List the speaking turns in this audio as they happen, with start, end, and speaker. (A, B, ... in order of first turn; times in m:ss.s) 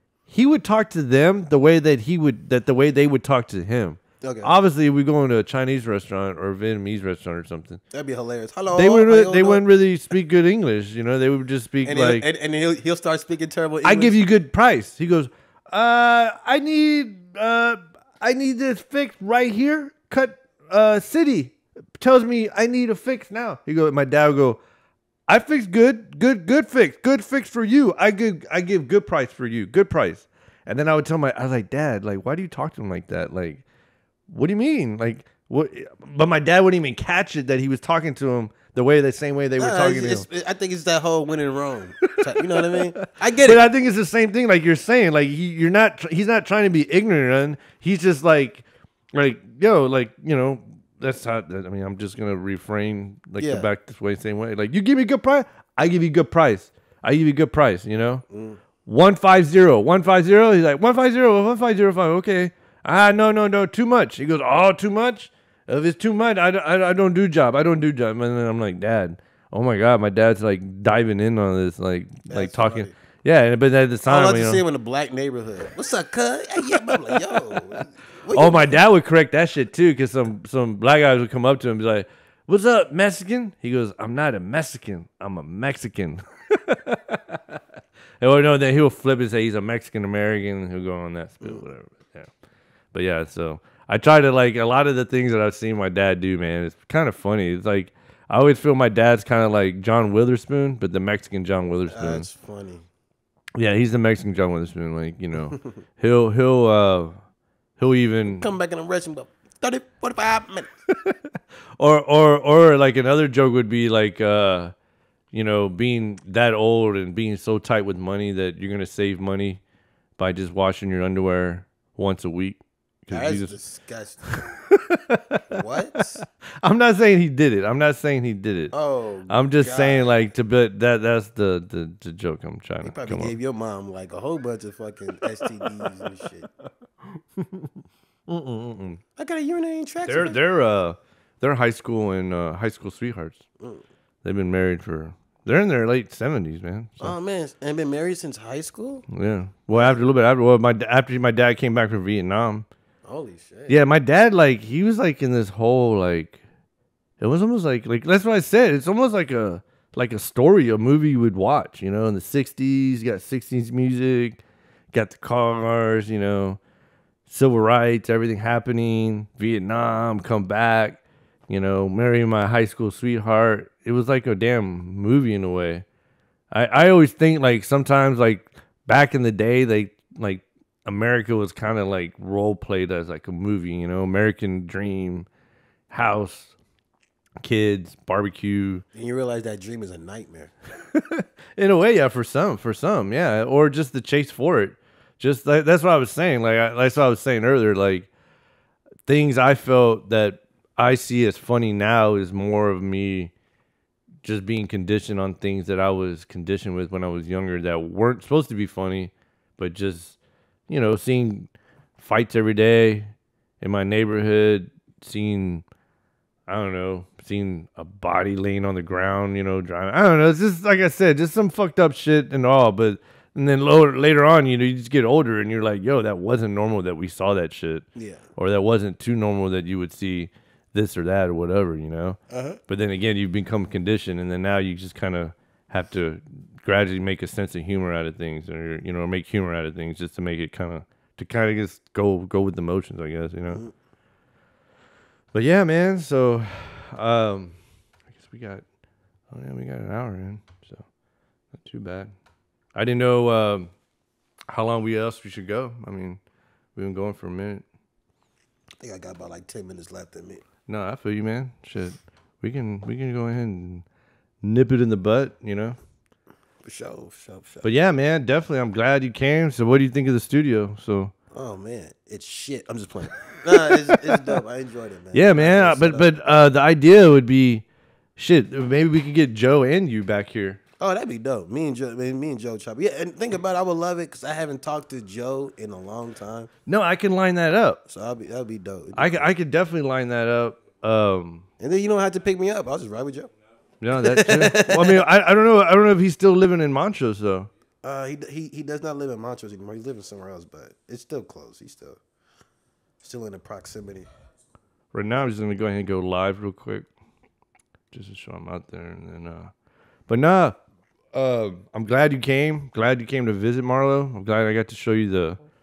0:00.3-0:07.8 A
0:04.2-0:04.5 B
0:07.9-0:09.6 B
0:08.7-0:12.3 A
0:11.8-0:14.2 B
0:13.8-0:24.6 A
0:25.3-0:33.6 A
0:34.3-0:40.3 A
0:39.6-0:43.6 B
0:42.0-0:58.2 A
0:53.4-0:53.7 B
0:58.3-0:58.6 B
0:58.8-1:14.6 A
1:12.3-1:12.9 B
1:14.0-1:18.8 B
1:16.7-1:17.6 A
1:18.3-1:27.6 A
1:28.2-1:32.3 A
1:32.9-1:42.3 A
1:41.9-1:42.9 B
1:43.6-1:47.2 A
1:47.8-1:48.5 A
1:48.3-1:50.7 B
1:50.9-1:54.7 A
1:55.3-1:59.6 A
2:00.2-2:03.6 A
2:03.1-2:04.6 B
2:04.3-2:08.7 A
2:05.5-2:06.2 B
2:08.7-2:10.2 B
2:09.3-2:13.3 A
2:12.8-2:16.5 B
2:15.4-2:16.0 A
2:17.1-2:17.7 A
2:18.3-2:19.0 A
2:19.2-2:20.4 B
2:20.0-2:23.4 A
2:24.2-2:27.2 A
2:27.0-2:29.1 B
2:29.1-2:32.7 A
2:29.7-2:30.0 B
2:33.0-2:33.8 B
2:33.7-2:36.4 A
2:37.2-2:44.4 A
2:44.9-2:46.6 A
2:47.3-2:55.8 A
2:56.5-3:05.3 A
3:05.9-3:06.5 A
3:07.4-3:08.8 A
3:08.9-3:10.5 B
3:10.9-3:18.1 A
3:19.0-3:23.3 A
3:24.2-3:30.2 A
3:30.7-3:35.6 A
3:36.5-4:03.6 A
3:48.0-3:48.2 B
3:52.3-3:52.6 B
4:05.3-4:07.6 A
4:08.2-4:08.6 A
4:09.3-4:10.8 A
4:11.5-4:12.1 A
4:12.7-4:13.7 A
4:14.5-4:16.2 A
4:16.7-4:17.6 A
4:18.8-4:20.4 B
4:20.7-4:23.8 A
4:24.4-4:25.8 A
4:26.6-4:27.7 B
4:27.6-4:31.1 A
4:31.3-4:36.0 B
4:33.6-4:34.3 A
4:35.1-4:37.6 A
4:38.2-4:40.6 A
4:40.8-4:46.5 B
4:46.7-4:47.8 A
4:47.9-4:49.3 B
4:49.0-4:51.4 A
4:51.6-4:53.3 B
4:53.8-4:57.5 A
4:54.0-4:55.0 B
4:57.8-5:02.0 B
5:03.0-5:04.1 B
5:04.9-5:06.9 A
5:07.9-5:09.5 A
5:10.1-5:10.6 A
5:11.1-5:15.4 A